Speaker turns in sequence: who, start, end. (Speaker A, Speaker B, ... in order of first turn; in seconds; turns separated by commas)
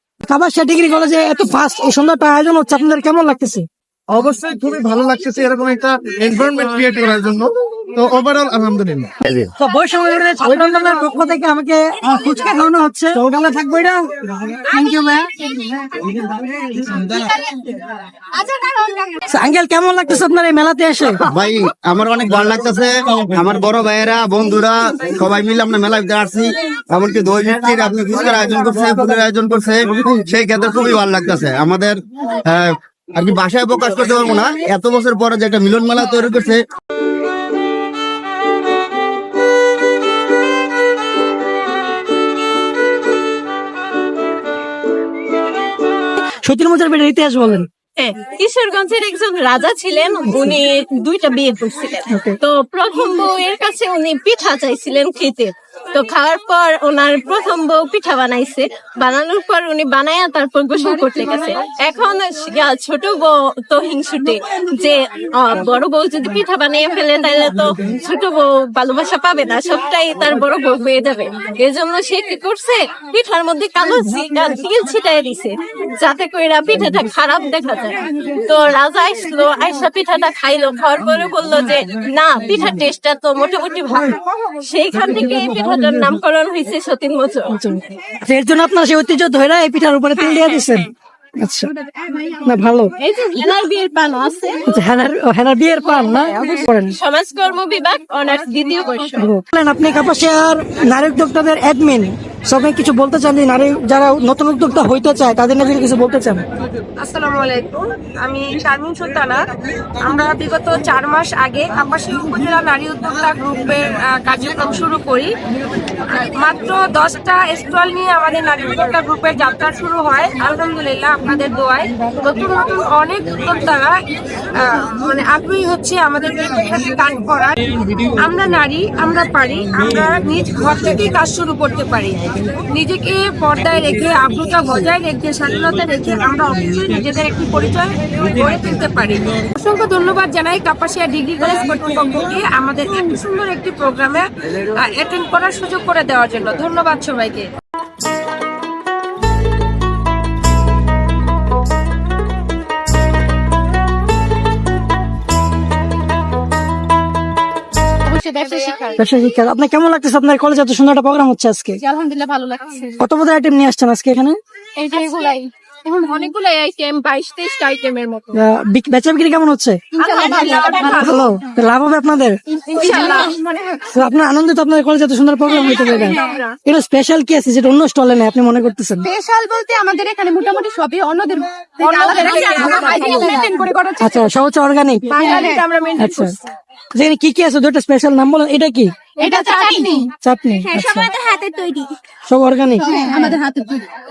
Speaker A: 0.2-3.7, Speaker B: 4.1-9.1, Speaker A: 9.6-13.2, Speaker B: 13.3-13.9, Speaker A: 14.6-15.5, Speaker A: 19.3-21.2, Speaker C: 21.2-36.6, Speaker A: 46.4-47.7, Speaker D: 48.0-87.5, Speaker A: 52.1-52.4, Speaker A: 87.5-91.7, Speaker A: 92.3-92.9, Speaker D: 93.0-94.7, Speaker A: 94.7-97.0, Speaker D: 96.9-99.2, Speaker A: 99.2-106.4, Speaker E: 107.0-109.4, Speaker E: 110.0-115.3, Speaker E: 116.1-123.9, Speaker E: 124.6-127.7, Speaker E: 128.2-147.5, Speaker F: 158.1-159.0, Speaker A: 159.0-161.8, Speaker F: 161.8-162.9, Speaker A: 163.0-164.4, Speaker F: 164.8-168.3, Speaker A: 168.3-169.8, Speaker F: 170.0-171.3, Speaker E: 170.4-170.8, Speaker A: 170.8-172.4, Speaker F: 172.7-173.7, Speaker E: 172.9-173.3, Speaker A: 173.9-179.1, Speaker F: 179.1-184.0, Speaker E: 181.8-183.4, Speaker A: 184.0-185.4, Speaker E: 185.2-185.9, Speaker F: 185.3-185.6, Speaker A: 186.0-186.3, Speaker A: 186.9-188.9, Speaker F: 189.2-190.1, Speaker A: 190.2-191.1, Speaker F: 191.0-191.5, Speaker A: 192.3-193.1, Speaker F: 192.9-193.8